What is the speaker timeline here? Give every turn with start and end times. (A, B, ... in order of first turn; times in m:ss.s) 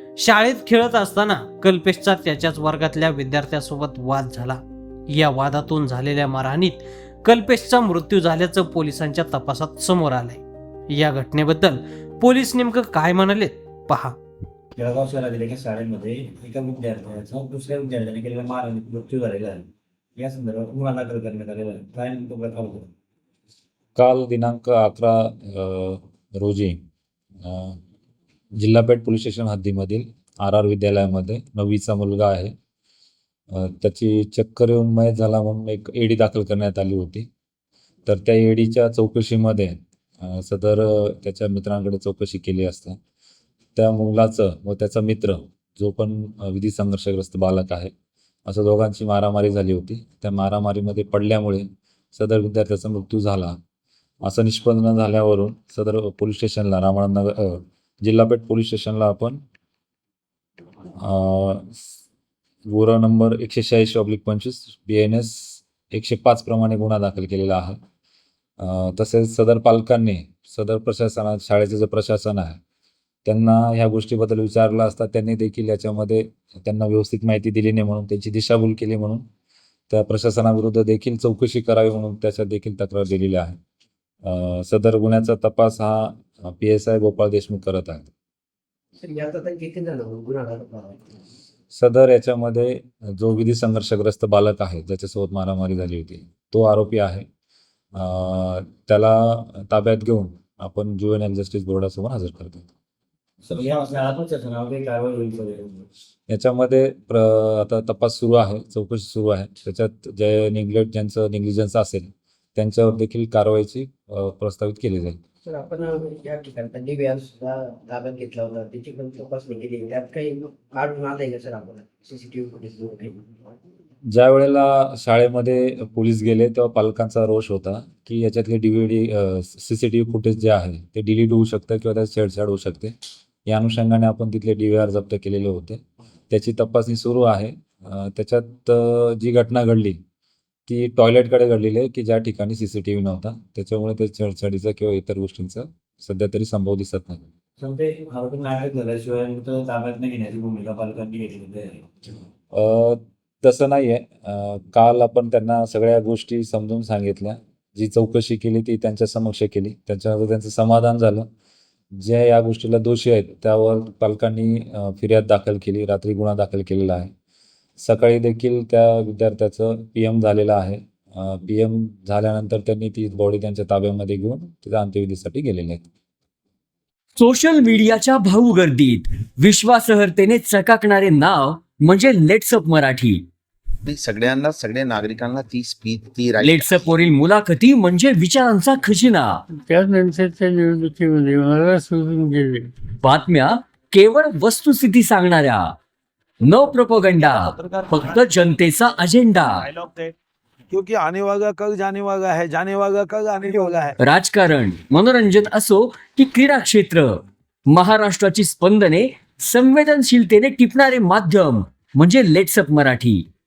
0:00.2-0:14.2 A
0:14.7-0:22.9 B
0:24.0-0:26.8 C
0:27.4-0:27.8 C
0:28.6-0:32.5 C
0:33.5-0:37.3 C
0:38.1-0:43.0 C
0:43.8-0:47.9 C
0:48.5-0:53.6 C
0:54.2-0:59.4 C
1:01.0-1:01.9 C
1:02.7-1:07.8 C
1:08.6-1:12.6 C
1:13.2-1:19.2 C
1:19.9-1:23.6 C
1:24.2-1:28.1 C
1:29.0-1:31.0 D
1:31.7-1:37.3 C
1:37.9-1:42.7 C
1:43.4-1:45.9 B
1:46.3-1:55.2 C
1:55.5-2:03.4 D
2:04.1-2:13.0 C
2:13.5-2:20.0 C
2:20.7-2:27.3 C
2:27.6-2:31.8 B
2:32.5-2:41.3 C
2:41.9-2:47.1 C
2:47.8-2:55.8 C
2:57.2-3:03.3 E
3:03.9-3:06.9 F
3:06.4-3:09.4 E
3:09.7-3:12.7 G
3:13.0-3:15.7 E
3:16.4-3:19.7 E
3:17.2-3:18.2 H
3:19.6-3:20.1 H
3:20.7-3:24.0 H
3:24.0-3:33.2 E